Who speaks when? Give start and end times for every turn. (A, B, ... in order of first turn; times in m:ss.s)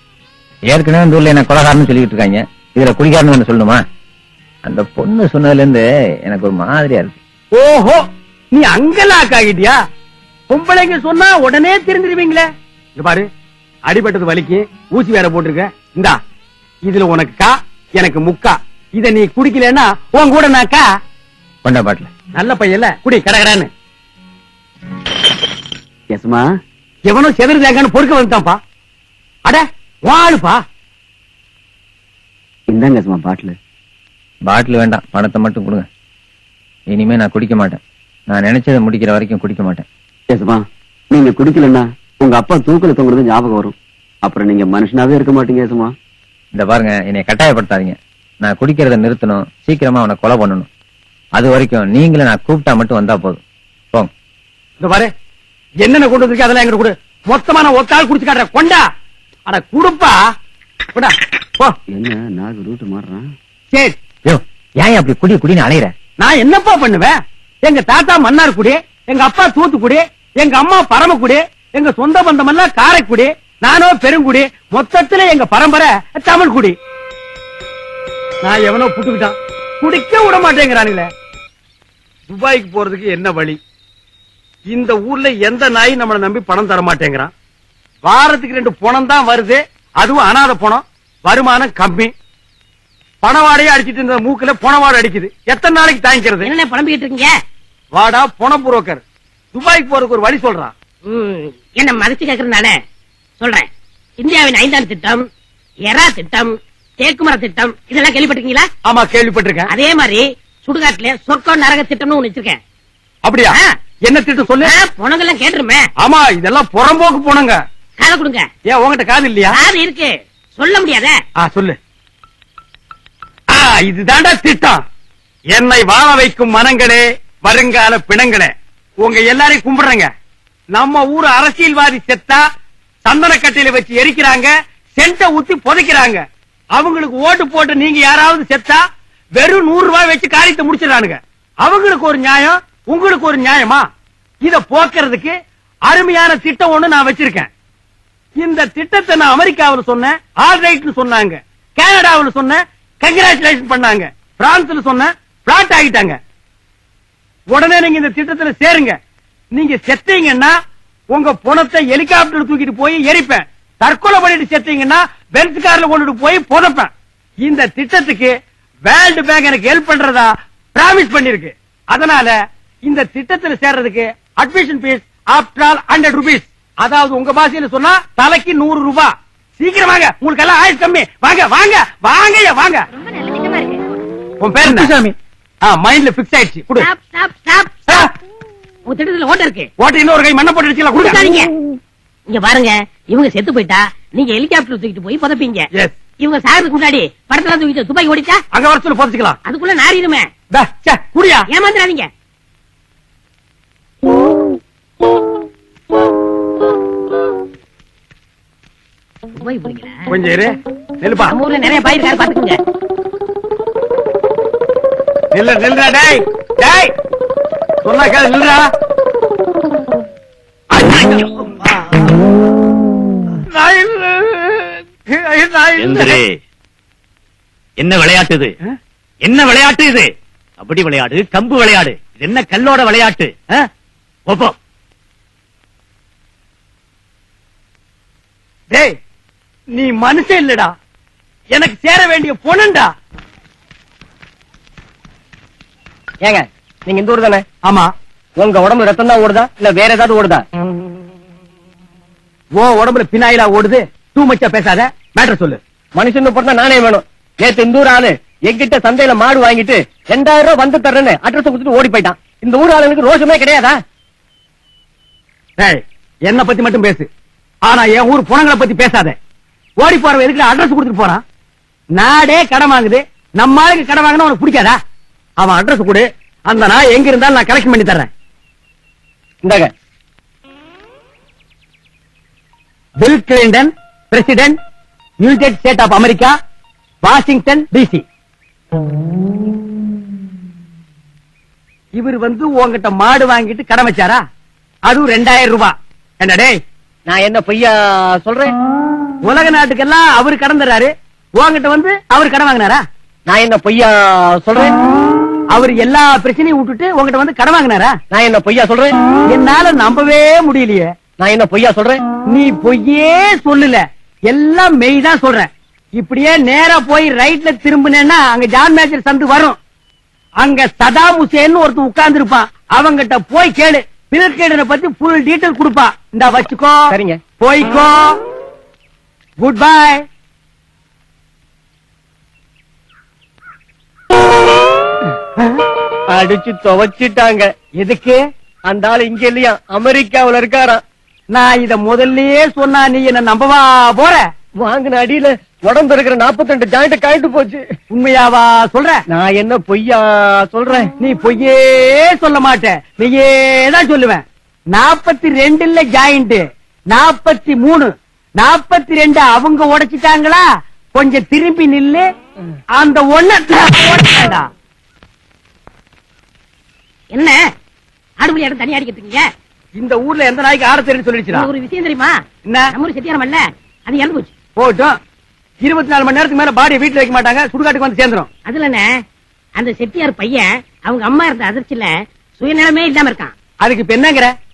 0:00.7-0:03.8 A
0:04.6-0:07.2 A
0:07.5-0:09.8 B
0:10.5-0:12.5 B
0:13.0-0:13.3 B
0:13.9-0:16.2 B
0:16.9-0:20.8 B
0:21.6-0:22.1 A
0:22.4-0:23.7 B
0:26.1-0:26.4 C
0:27.1-0:28.6 B
0:29.5-0:30.6 B
0:32.7-0:33.6 C
0:34.5-0:35.9 A
0:36.9-0:39.8 A
0:40.3-0:45.9 C
0:46.6-0:50.7 A
0:51.4-0:53.4 A
0:54.8-0:55.1 B
0:55.8-0:58.8 B
0:59.5-1:00.2 B
1:01.0-1:01.8 B
1:01.9-1:03.2 C
1:04.3-1:05.9 A
1:06.2-1:16.8 B
1:18.4-1:21.1 B
1:22.3-1:23.6 B
1:24.7-1:27.3 B
1:28.0-1:32.1 B
1:33.2-1:36.5 B
1:36.4-1:37.3 D
1:38.0-1:39.0 B
1:39.5-1:40.7 B
1:41.1-1:42.7 D
1:43.4-1:43.7 D
1:44.2-1:45.2 D
1:45.9-1:48.7 D
1:48.8-1:49.7 B
1:49.7-1:52.6 D
1:53.3-1:53.6 B
1:54.1-1:54.7 B
1:54.6-1:55.8 D
1:56.0-1:57.6 B
1:58.0-1:58.5 D
1:58.7-1:59.6 B
1:59.6-2:01.2 D
2:01.4-2:01.8 B
2:03.5-2:04.8 B
2:05.5-2:10.1 B
2:10.7-2:12.4 B
2:13.0-2:16.2 B
2:16.8-2:18.8 B
2:19.4-2:23.8 B
2:24.4-2:25.4 B
2:25.9-2:27.5 B
2:28.4-2:36.2 B
2:37.5-2:39.0 B
2:39.5-2:40.5 B
2:41.1-2:46.9 B
2:47.4-2:48.3 B
2:48.9-2:52.3 B
2:52.9-3:02.9 B
3:04.4-3:05.0 B
3:05.7-3:06.9 B
3:06.8-3:08.1 D
3:08.9-3:09.7 D
3:09.8-3:11.2 B
3:11.0-3:11.5 D
3:12.3-3:15.7 D
3:16.2-3:18.4 D
3:18.5-3:19.4 B
3:19.5-3:20.3 D
3:20.5-3:21.4 B
3:21.5-3:22.1 D
3:29.4-3:30.0 D
3:30.1-3:31.4 B
3:31.3-3:32.6 D
3:35.3-3:36.9 B
3:37.8-3:38.6 B
3:40.8-3:41.8 B
3:45.3-3:46.1 B
3:45.8-3:46.4 E
3:47.8-3:48.5 E
3:49.2-3:50.1 E
3:50.6-3:53.3 E
3:54.3-3:54.6 E
3:59.8-4:00.7 B
4:01.5-4:02.9 B
4:06.2-4:07.4 F
4:08.4-4:10.4 F
4:12.6-4:15.6 B
4:16.0-4:23.8 F
4:25.6-4:27.1 B
4:27.7-4:29.2 B
4:29.8-4:31.2 B
4:32.0-4:34.8 B
4:35.4-4:38.1 B
4:39.4-4:39.7 F
4:43.0-4:44.6 B
4:45.2-4:46.4 B
4:47.0-4:48.0 B
4:52.0-4:54.2 B
4:54.9-4:56.5 B
4:57.1-4:58.5 F
4:59.3-5:02.8 B
5:03.3-5:04.8 F
5:05.5-5:08.0 B
5:08.1-5:09.0 F
5:09.3-5:10.9 B
5:11.2-5:12.0 F
5:12.3-5:19.6 B
5:20.4-5:28.1 B
5:26.9-5:27.2 F
5:29.4-5:30.0 B
5:36.1-5:37.5 F
5:37.8-5:38.2 B
5:38.7-5:40.8 F
5:41.3-5:44.2 B
5:44.6-5:47.6 F
5:47.9-5:49.0 B
5:49.1-5:50.9 F
5:51.0-6:02.1 B
6:02.8-6:04.5 B
6:08.2-6:09.3 D
6:09.8-6:11.5 B
6:11.3-6:12.1 D
6:12.7-6:14.3 D
6:14.6-6:15.0 B
6:15.6-6:18.3 B
6:18.5-6:18.8 D
6:19.6-6:23.3 D
6:23.6-6:24.3 B